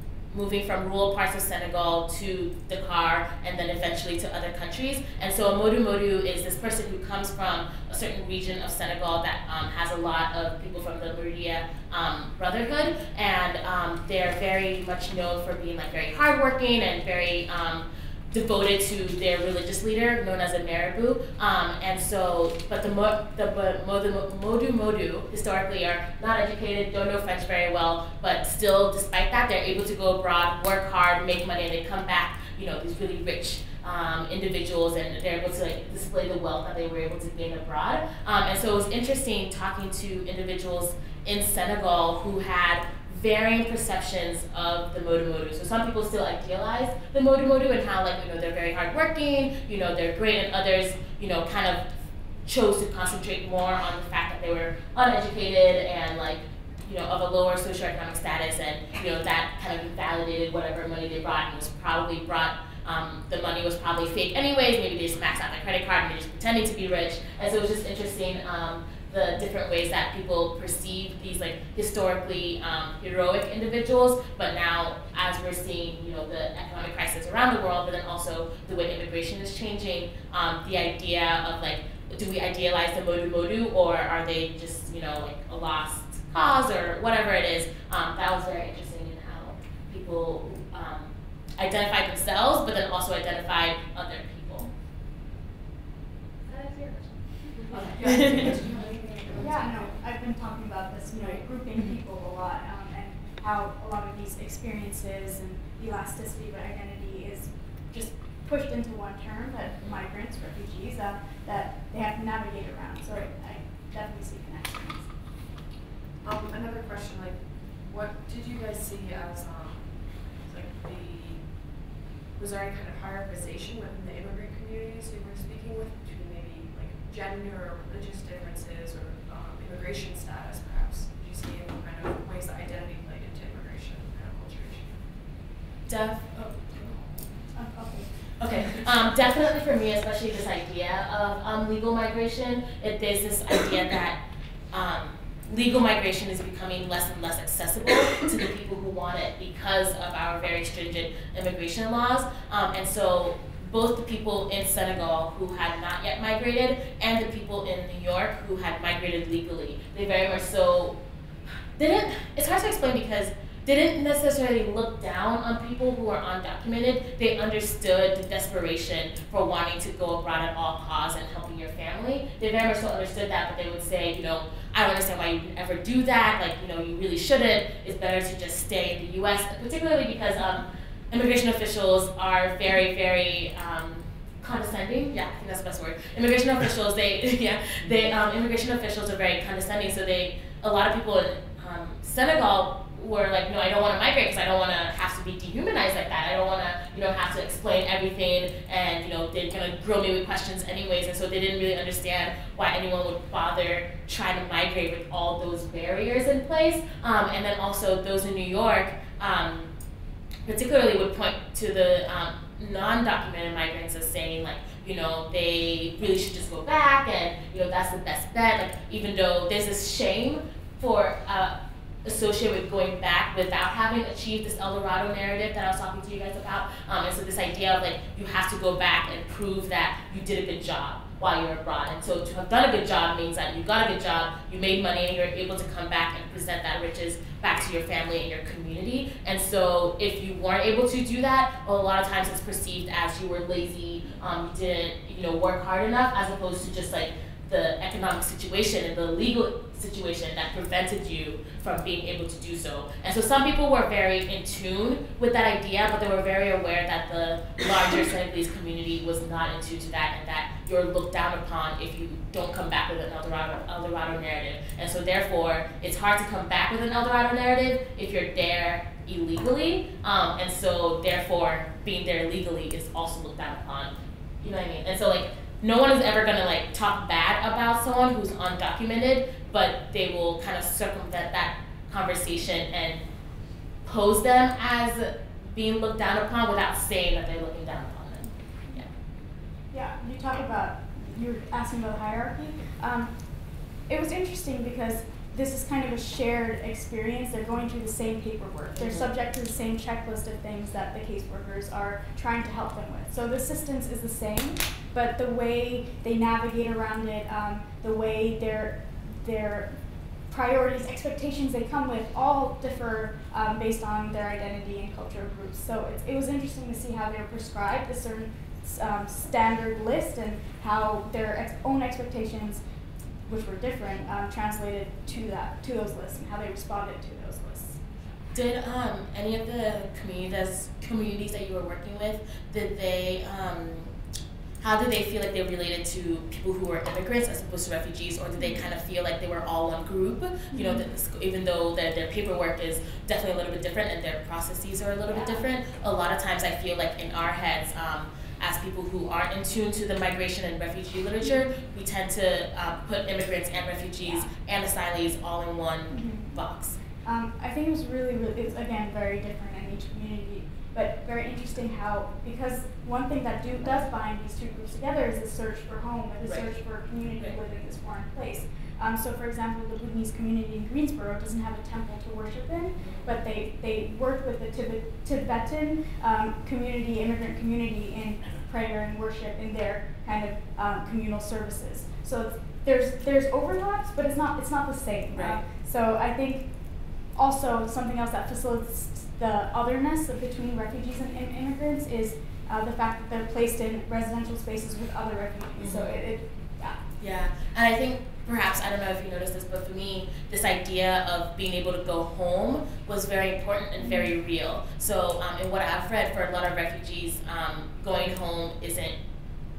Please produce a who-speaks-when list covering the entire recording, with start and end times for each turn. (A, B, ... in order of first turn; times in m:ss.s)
0:00.3-0:51.9 A
0:52.4-1:34.7 A
1:37.7-1:39.9 B
1:37.7-1:38.8 C
1:38.0-1:38.6 A
1:39.4-1:55.0 C
1:56.2-1:59.9 B
2:00.4-2:01.4 B
2:02.4-2:15.0 B
2:15.9-2:16.5 A
2:17.5-2:18.1 C
2:18.4-2:24.2 A
2:24.7-2:41.0 A
2:41.8-3:29.7 A
3:30.4-4:43.0 A
4:43.8-4:48.9 A
4:49.7-4:53.1 C
4:53.9-5:09.7 C
4:58.8-4:59.1 A
5:10.3-5:22.6 C
5:23.2-5:27.8 C
5:28.3-5:33.9 A
5:34.6-5:56.8 A
5:40.5-5:40.8 C
5:45.1-5:45.4 C
5:54.0-5:54.3 C
5:55.9-5:56.2 C
5:57.0-6:26.5 C
6:27.1-6:36.8 C
6:35.6-6:36.0 A
6:37.0-6:48.9 A
6:43.8-6:44.1 C